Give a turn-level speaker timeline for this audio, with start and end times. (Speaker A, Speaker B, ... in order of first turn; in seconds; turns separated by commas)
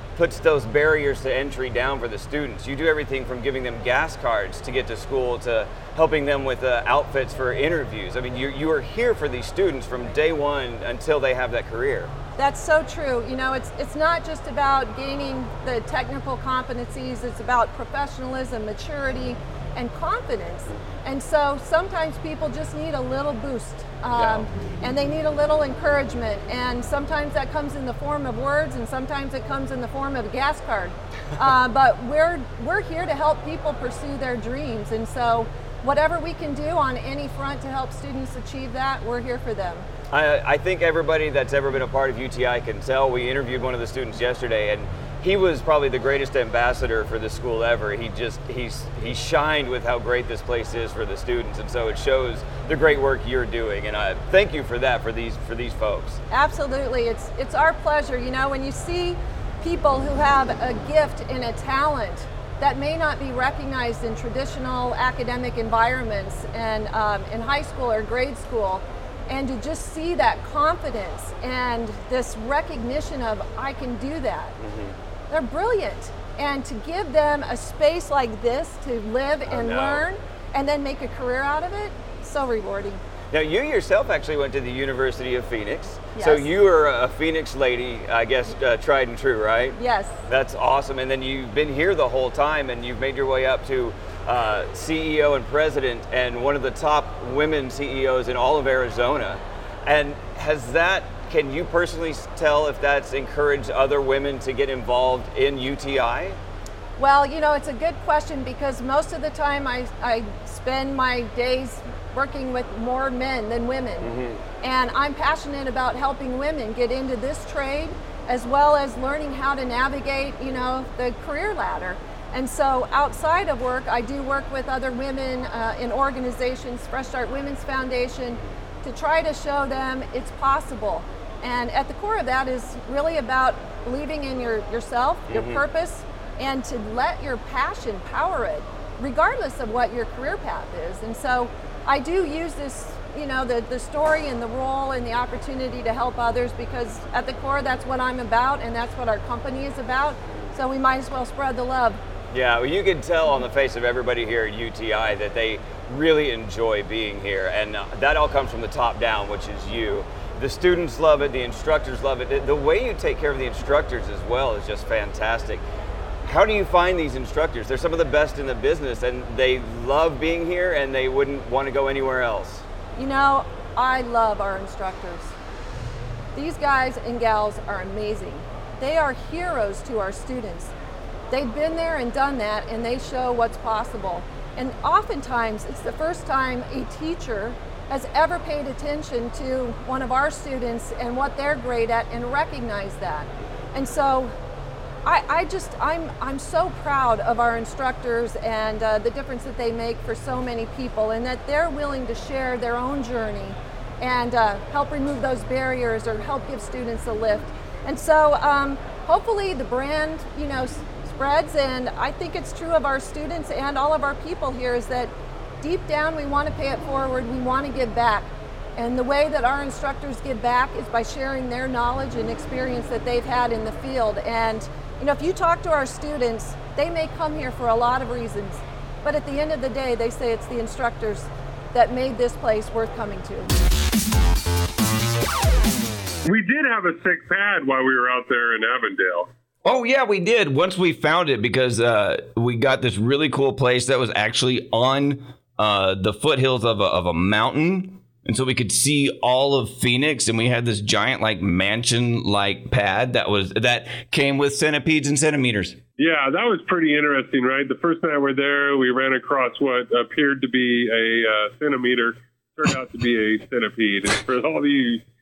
Speaker A: 0.2-12.1, Speaker B: 12.4-39.9, Speaker A: 24.2-24.4, Speaker A: 40.1-56.2, Speaker B: 56.3-74.6, Speaker A: 74.6-75.0, Speaker B: 75.3-83.0, Speaker A: 79.5-80.0, Speaker A: 83.3-106.4, Speaker B: 86.2-86.5, Speaker B: 89.8-90.2, Speaker B: 107.0-114.1, Speaker A: 114.0-114.4, Speaker B: 114.6-152.0, Speaker A: 135.3-135.6, Speaker A: 152.3-165.6, Speaker A: 166.3-172.7, Speaker B: 173.0-175.3, Speaker B: 176.3-180.7, Speaker B: 181.3-194.3, Speaker B: 195.1-233.5, Speaker C: 236.2-239.3, Speaker D: 239.6-255.8, Speaker C: 256.0-265.0